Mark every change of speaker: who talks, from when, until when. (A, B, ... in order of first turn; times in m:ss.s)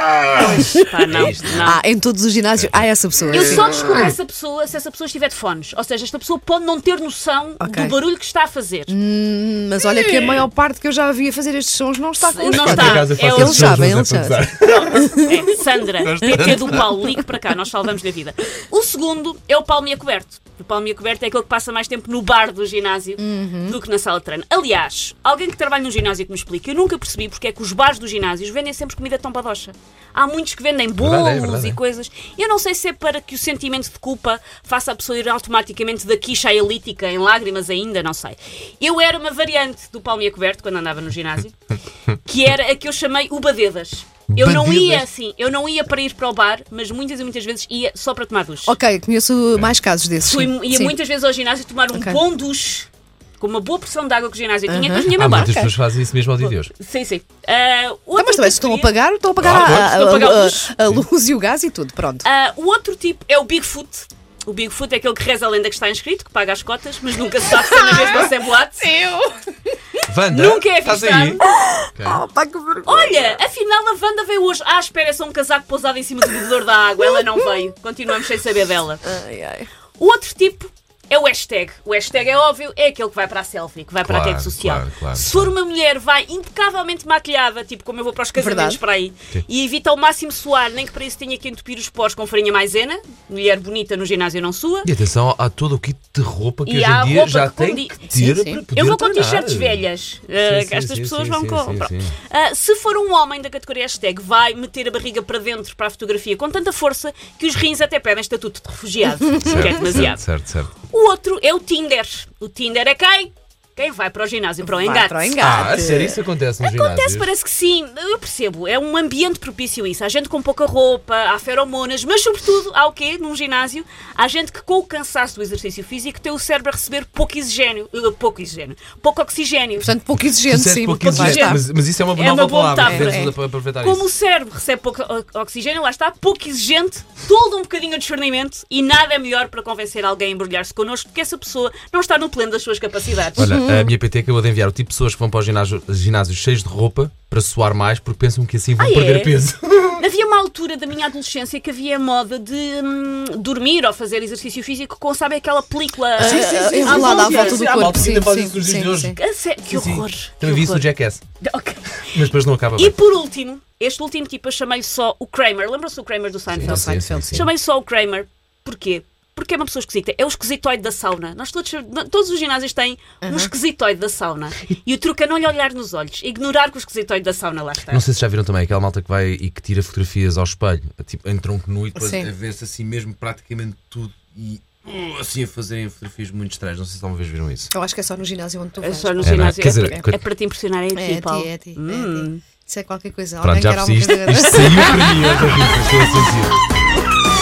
0:00.4-0:00.9 A
0:00.4-0:01.8 B
0:01.1-0:01.7 C
0:01.6-0:03.8 A
0:02.6-0:04.1 C
0:03.3-0:09.0 B
0:07.6-0:08.0 A
0:08.9-0:15.4 A
0:12.2-0:13.8 B
0:12.6-0:15.1 C
0:14.6-0:41.6 B
0:16.0-0:16.9 C
0:23.2-0:23.8 A
0:31.0-0:31.8 C
0:42.2-0:48.8 B
0:44.3-0:45.0 C
0:48.6-0:50.9 A
0:50.2-0:52.9 B
0:51.9-0:52.2 A
0:53.4-0:55.6 B
0:54.7-0:55.7 A
0:55.2-0:56.7 C
0:56.4-0:58.9 B
0:58.1-1:02.3 A
0:59.4-1:00.1 C
0:59.5-1:00.8 B
1:02.2-1:09.0 B
1:07.5-1:08.3 A
1:08.8-1:09.5 A
1:10.0-1:11.4 C
1:10.3-1:11.4 B
1:11.4-1:13.3 A
1:11.9-1:12.2 C
1:12.8-1:19.0 B
1:19.0-1:19.7 A
1:20.0-1:34.9 B
1:24.0-1:25.5 C
1:28.3-1:28.8 A
1:34.8-1:42.2 C
1:36.6-1:50.2 B
1:38.1-1:38.6 A
1:49.4-1:50.7 C
1:50.8-1:55.4 B
1:54.6-1:56.2 A
1:55.4-1:57.3 C
1:56.6-2:09.9 B
2:09.8-2:11.6 A
2:10.5-2:14.0 C
2:11.0-2:11.6 B
2:12.1-2:23.5 B
2:12.8-2:13.3 A
2:23.4-2:30.0 C
2:23.4-2:23.9 A
2:28.8-2:29.4 B
2:30.0-2:38.1 B
2:36.2-2:39.2 A
2:36.5-2:41.2 C
2:39.1-2:40.8 B
2:41.4-2:42.0 B
2:42.1-2:42.9 C
2:42.8-2:58.0 B
2:46.5-2:47.5 C
2:46.6-2:47.5 A
2:53.2-2:53.5 A
2:57.9-3:07.7 C
3:02.0-3:02.3 A
3:07.7-3:10.1 A
3:08.8-3:12.4 B
3:09.2-3:10.2 C
3:10.9-3:15.6 A
3:13.4-3:16.5 C